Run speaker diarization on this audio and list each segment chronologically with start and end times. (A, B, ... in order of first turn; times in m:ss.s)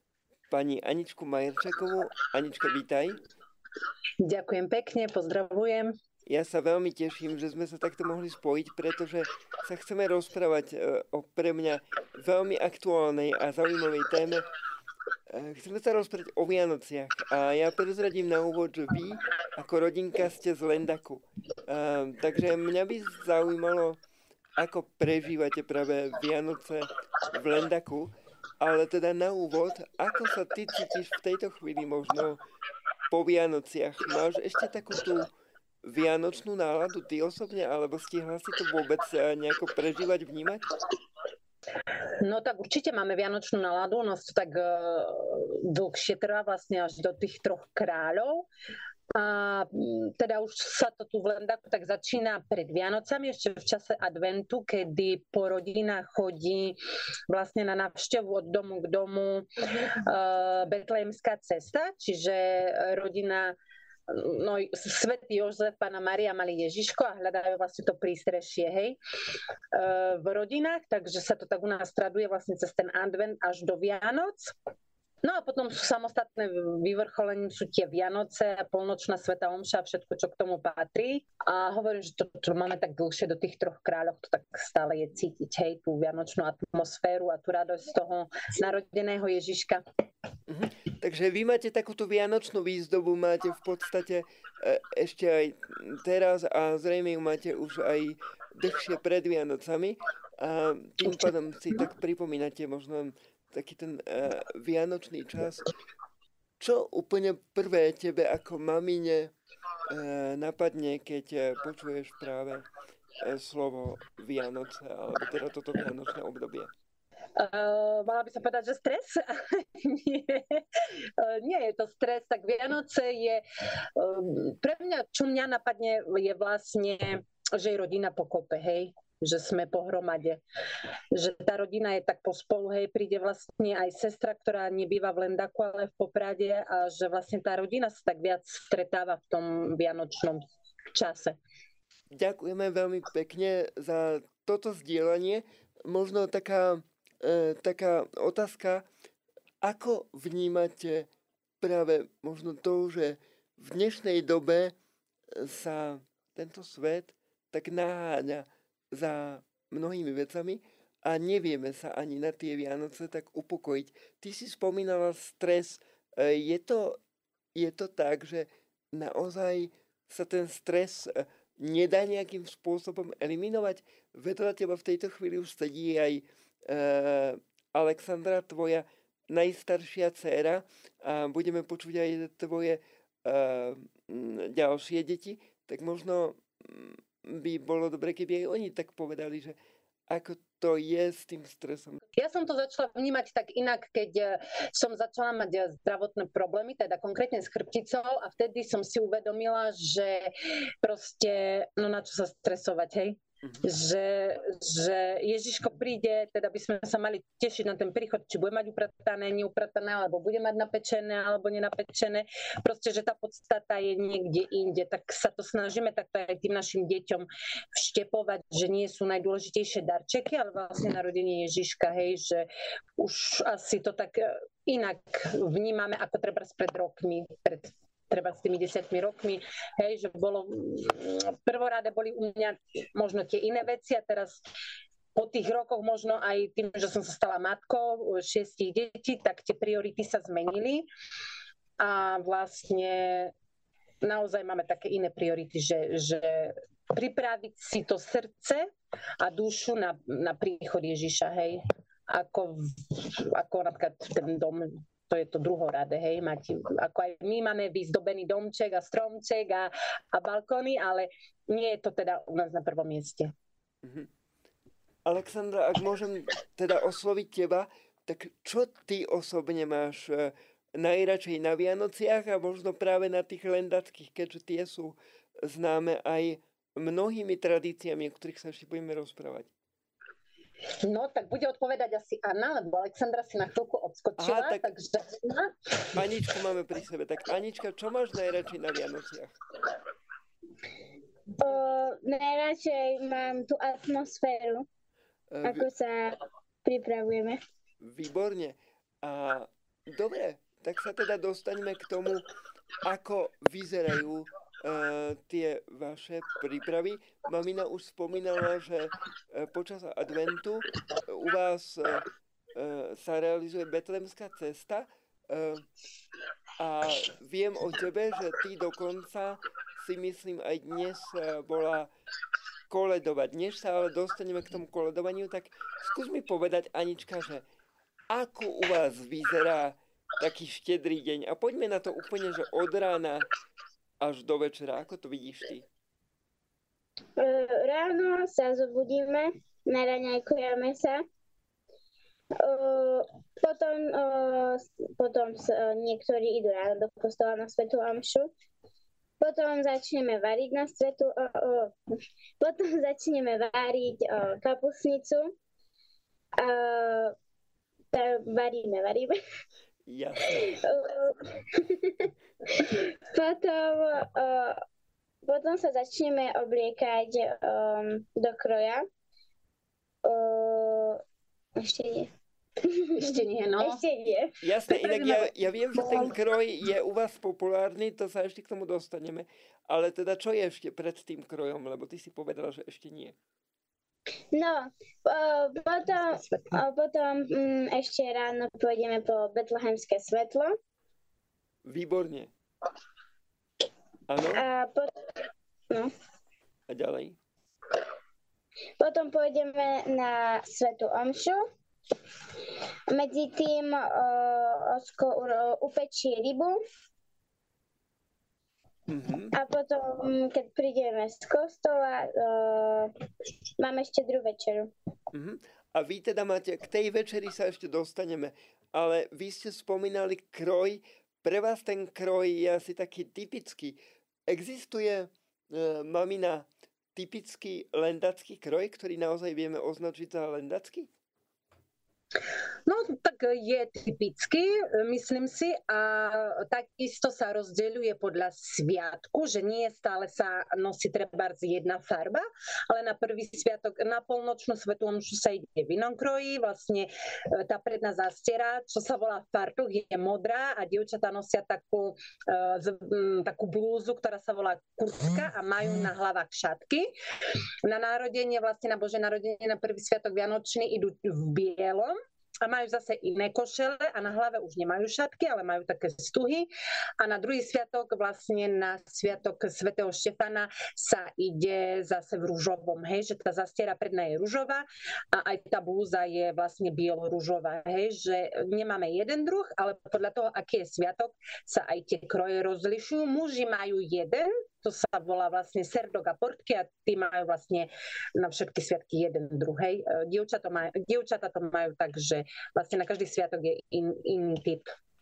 0:00.5-0:03.2 A
0:04.2-0:05.9 B
0:06.3-0:14.5 A
0:15.3-0:24.0 A
0:24.6-0:32.4 A
0:33.1-0:35.3 A
0:35.8-0:40.6 A
0:42.2-0:48.5 B
0:49.1-0:56.8 B
0:57.3-1:03.6 B
1:04.1-1:09.0 B
1:09.7-1:14.5 B
1:15.2-1:29.8 B
1:30.5-1:45.7 A
1:46.6-1:49.3 A
1:49.9-1:52.6 A
1:53.2-1:56.7 A
1:57.4-2:03.4 B
2:04.0-2:10.4 B
2:11.1-2:21.4 B
2:22.1-2:28.8 A
2:29.6-2:31.1 A
2:31.6-2:34.7 A
2:35.3-2:47.0 A
2:47.5-3:09.6 A
3:10.1-3:12.0 A
3:12.2-3:54.4 B
3:55.1-4:00.9 B
4:01.8-4:03.3 B
4:04.0-4:23.3 B
4:23.8-4:24.1 A
4:25.0-4:39.5 A
4:40.8-4:45.5 B
4:44.2-4:44.7 A
4:45.9-4:49.4 A
4:51.4-4:54.6 C
4:55.3-4:55.7 A
4:55.4-4:57.4 C
4:57.8-5:02.2 A
5:02.8-5:12.0 A
5:12.5-5:15.6 A
5:16.6-5:21.9 A
5:22.7-5:27.4 A
5:28.1-5:33.3 A
5:34.0-5:35.6 A
5:37.2-5:41.0 C
5:42.4-5:48.3 C
5:49.2-5:51.8 C
5:52.4-5:55.3 C
5:56.4-5:57.1 C
5:57.9-5:59.2 C
5:59.9-6:00.5 A
6:00.4-6:04.6 C
6:05.2-6:08.8 C
6:10.0-6:11.0 C
6:11.6-6:12.1 C
6:12.6-6:14.4 C
6:13.0-6:13.8 B
6:14.4-6:23.2 A
6:14.7-6:15.3 B
6:24.3-6:30.5 C
6:26.1-6:26.6 B
6:31.6-6:32.3 A
6:34.1-6:34.4 A
6:34.3-6:35.1 C
6:36.7-6:37.2 A
6:38.8-6:41.4 C
6:42.9-6:46.6 C
6:48.9-6:49.3 A
6:49.3-6:52.9 C
6:53.6-6:54.7 C
6:55.1-7:10.9 A
7:12.7-7:36.9 B
7:37.6-8:14.7 B